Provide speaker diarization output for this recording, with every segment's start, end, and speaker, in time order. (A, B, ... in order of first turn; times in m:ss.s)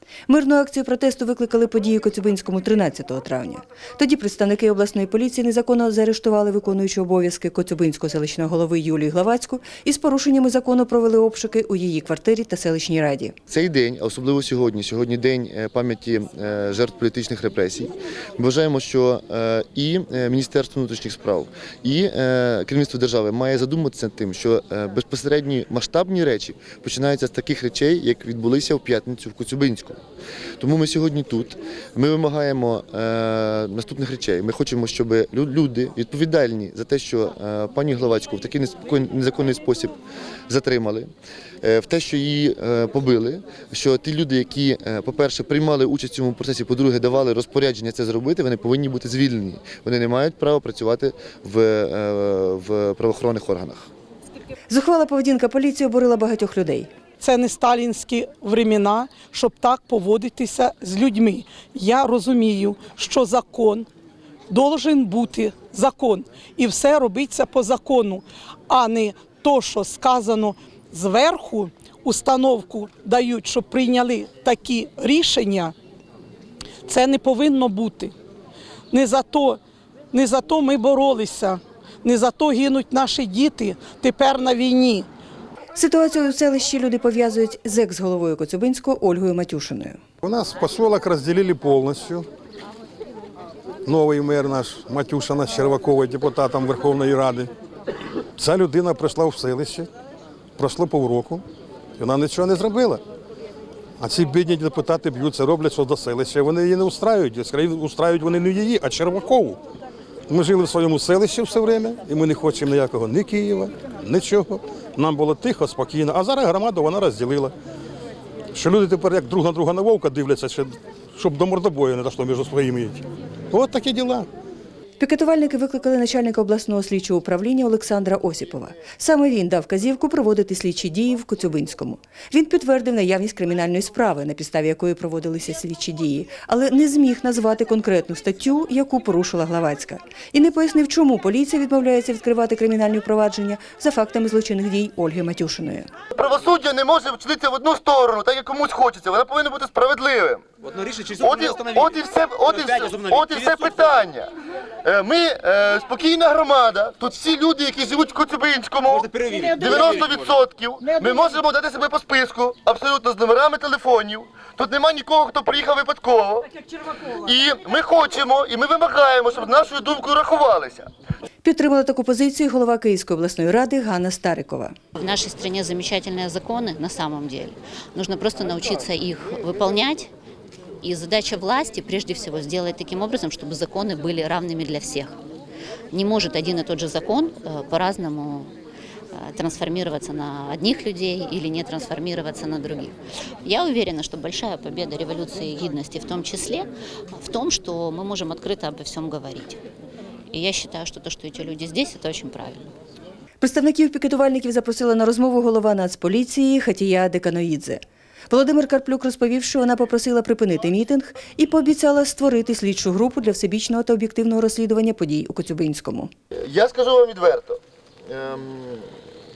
0:00.3-0:13.4 A
0:13.5-0:30.0 B
0:30.6-0:40.0 B
0:40.5-0:41.1 B
0:41.6-0:53.9 B
0:54.7-0:56.9 A
0:57.2-1:03.9 C
1:04.5-1:15.7 C
1:16.9-1:18.1 C
1:18.9-1:19.6 C
1:20.1-1:25.1 C
1:25.8-1:30.0 A
1:30.2-1:32.2 D
1:33.8-1:37.5 D
1:38.4-1:39.9 D
1:40.6-1:41.4 D
1:42.0-1:43.0 D
1:44.0-1:49.6 D
1:50.3-1:57.5 D
1:58.5-2:04.3 D
2:05.0-2:25.9 A
2:26.1-2:34.3 B
2:34.8-2:46.5 B
2:47.1-2:50.9 B
2:51.4-2:54.7 A
2:55.0-3:00.1 E
3:00.8-3:05.1 E
3:05.9-3:08.5 E
3:09.1-3:19.6 E
3:20.3-3:22.7 E
3:23.4-3:36.1 A
3:36.3-3:38.9 B